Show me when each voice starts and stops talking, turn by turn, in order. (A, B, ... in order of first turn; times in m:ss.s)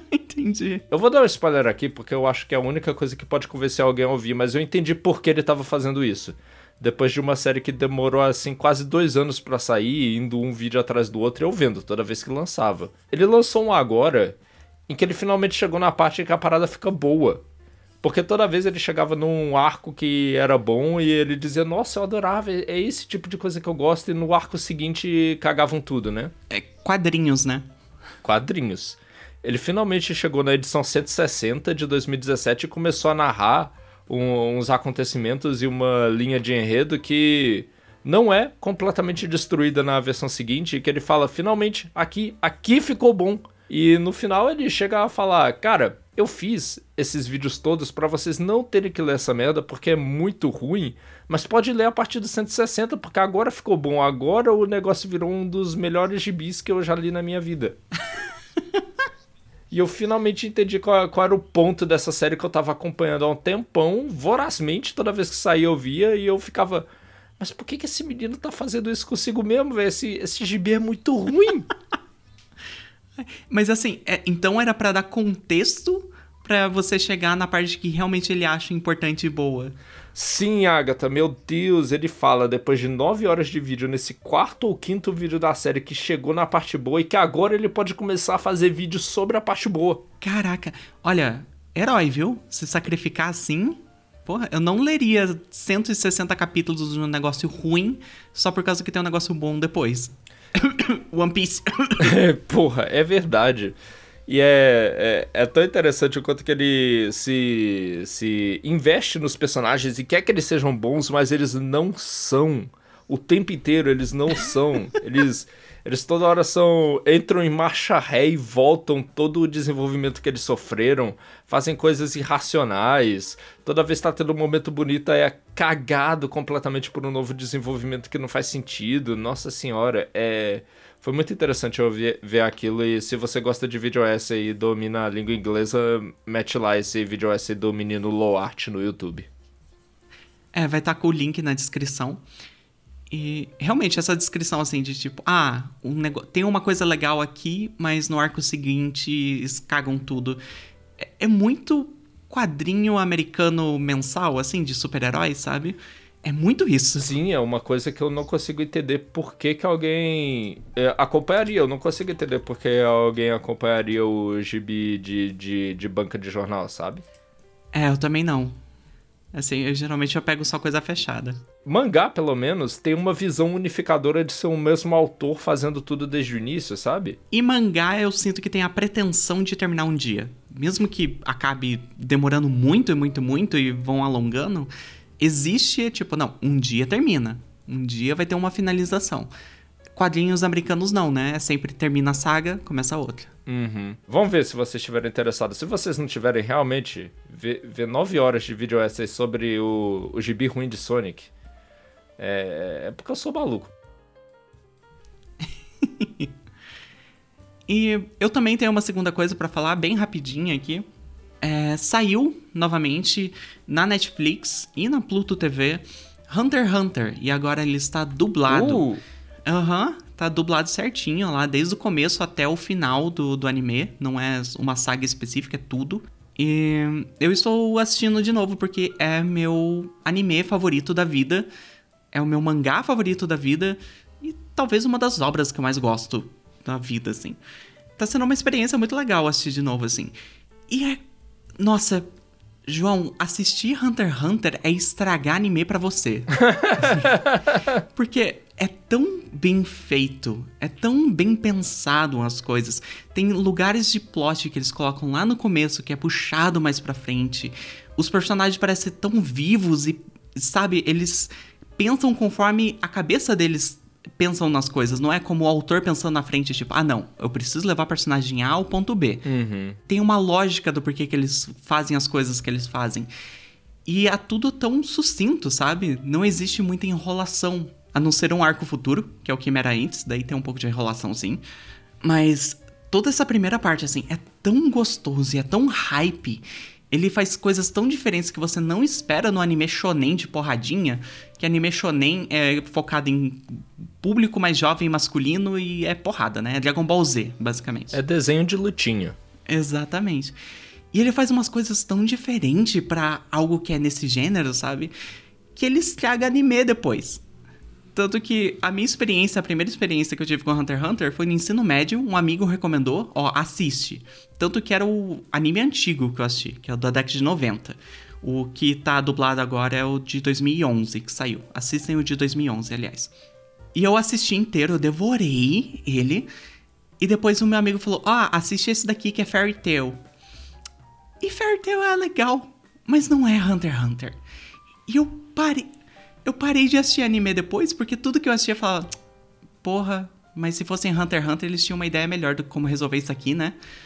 0:00.1-0:00.8 A
0:00.9-0:14.4 B
0:14.9-0:17.4 B
0:18.0-0:26.3 B
0:26.5-0:27.6 A
0:28.2-0:57.8 B
0:59.7-1:06.8 B
1:07.4-1:11.7 B
1:13.2-1:19.7 A
1:20.1-1:30.0 B
1:30.2-1:42.2 A
1:42.0-2:19.3 B
2:20.5-2:22.2 A
2:23.1-2:30.4 A
2:31.0-2:37.1 A
2:37.0-2:47.0 B
2:47.7-2:48.5 A
2:49.3-2:51.4 A
2:51.6-2:57.2 B
2:57.3-3:09.3 A
3:10.0-3:13.3 A
3:13.4-3:21.3 B
3:22.2-3:23.7 B
3:25.8-3:26.3 A
3:27.7-3:30.8 A
3:31.4-3:38.9 A
3:38.5-3:39.0 B
3:39.4-3:51.5 A
3:52.1-3:57.4 A
3:58.0-4:00.1 A
4:00.7-4:01.0 A
4:01.6-4:02.0 A
4:02.6-4:07.2 A
4:06.4-4:07.7 B
4:07.9-4:29.2 A
4:29.2-4:29.8 B
4:29.8-4:33.1 A
4:33.8-4:41.4 A
4:42.0-4:58.0 A
4:57.9-4:59.1 B
4:59.5-5:00.4 A
5:00.9-5:04.9 A
5:05.6-5:07.2 A
5:07.9-5:23.1 A
5:23.7-5:26.3 A
5:27.0-5:30.0 A
5:31.2-5:34.2 A
5:34.9-5:35.7 A
5:36.2-5:38.9 A
5:39.6-5:43.6 A